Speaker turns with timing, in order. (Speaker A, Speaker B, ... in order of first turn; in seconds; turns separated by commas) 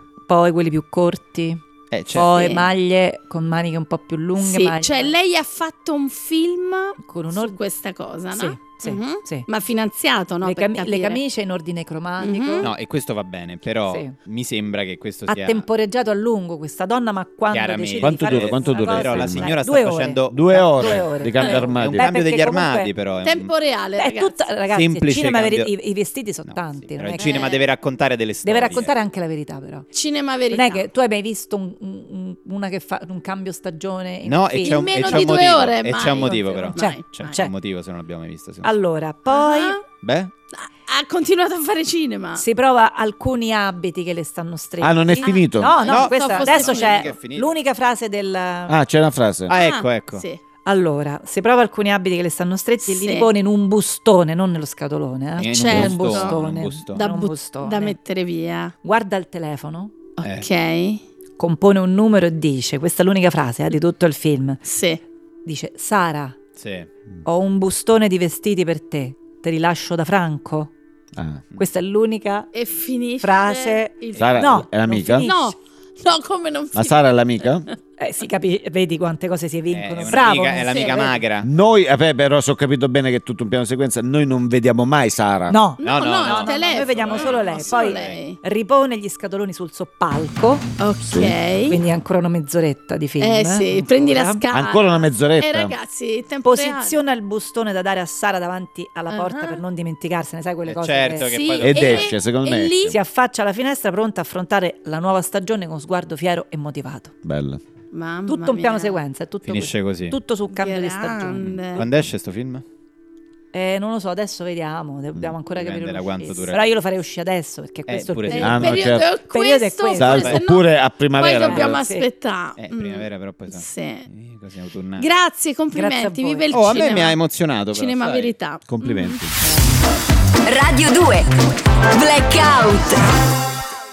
Speaker A: 0.3-1.6, Speaker B: 1.9-2.3, Speaker A: 2.1-5.1, Speaker C: 2.3-2.6, Speaker C: 4.4-11.2, Speaker A: 7.0-7.6, Speaker A: 8.3-9.5, Speaker A: 10.4-12.7, Speaker C: 12.2-12.7, Speaker B: 12.6-15.7, Speaker A: 13.9-14.1, Speaker A: 15.3-22.9, Speaker B: 17.5-23.5, Speaker D: 18.0-19.5, Speaker D: 20.3-22.0, Speaker C: 23.2-24.4, Speaker A: 24.0-27.5, Speaker B: 24.7-25.7, Speaker B: 26.5-28.9, Speaker C: 27.1-27.6, Speaker A: 28.4-29.9, Speaker C: 29.9-30.8, Speaker A: 30.5-35.5, Speaker B: 34.2-38.7, Speaker C: 34.6-37.3, Speaker A: 36.7-37.5, Speaker A: 38.6-39.8, Speaker C: 39.3-39.8, Speaker B: 40.0-40.3, Speaker C: 40.5-42.4, Speaker A: 42.4-48.8, Speaker D: 44.8-45.8, Speaker C: 45.2-47.1, Speaker B: 45.8-47.5, Speaker D: 48.7-49.5, Speaker B: 49.5-50.2, Speaker C: 49.5-50.4, Speaker A: 50.6-58.0, Speaker C: 52.8-53.3, Speaker C: 55.4-56.4, Speaker B: 55.4-57.0, Speaker C: 56.9-58.7, Speaker A: 58.8-59.9, Speaker C: 60.2-61.0, Speaker B: 60.2-60.5, Speaker A: 61.4-64.6, Speaker C: 64.6-65.0, Speaker A: 65.4-66.4, Speaker B: 66.6-66.9, Speaker A: 67.2-70.7, Speaker D: 71.1-71.4, Speaker A: 71.6-72.5, Speaker C: 72.5-74.5, Speaker A: 73.2-75.5, Speaker D: 74.2-75.3, Speaker C: 75.2-77.0, Speaker D: 76.7-77.7, Speaker A: 78.0-81.1, Speaker B: 79.7-81.5, Speaker C: 80.6-81.2, Speaker D: 81.4-85.6, Speaker A: 85.5-90.7, Speaker C: 85.8-88.4, Speaker B: 85.8-88.2, Speaker C: 90.8-91.8, Speaker D: 91.1-91.3, Speaker A: 91.7-94.4, Speaker C: 93.2-97.0, Speaker D: 94.5-95.8, Speaker A: 96.4-101.3, Speaker C: 99.1-99.6, Speaker B: 100.7-102.1, Speaker C: 101.2-103.0, Speaker D: 101.6-103.0, Speaker A: 102.8-107.1, Speaker D: 107.2-107.6, Speaker C: 107.9-109.0, Speaker A: 108.3-111.8, Speaker B: 109.4-110.2, Speaker C: 110.5-111.8, Speaker B: 111.7-112.6, Speaker A: 113.5-120.4, Speaker B: 115.6-116.6, Speaker B: 117.9-118.8, Speaker C: 118.3-124.1, Speaker D: 118.4-119.1, Speaker D: 119.9-121.8, Speaker A: 121.3-122.1, Speaker B: 122.6-125.1, Speaker C: 125.0-127.2, Speaker A: 125.7-126.5, Speaker B: 126.5-128.3, Speaker C: 127.7-129.2, Speaker D: 128.7-129.4, Speaker A: 129.4-129.7, Speaker E: 130.4-133.4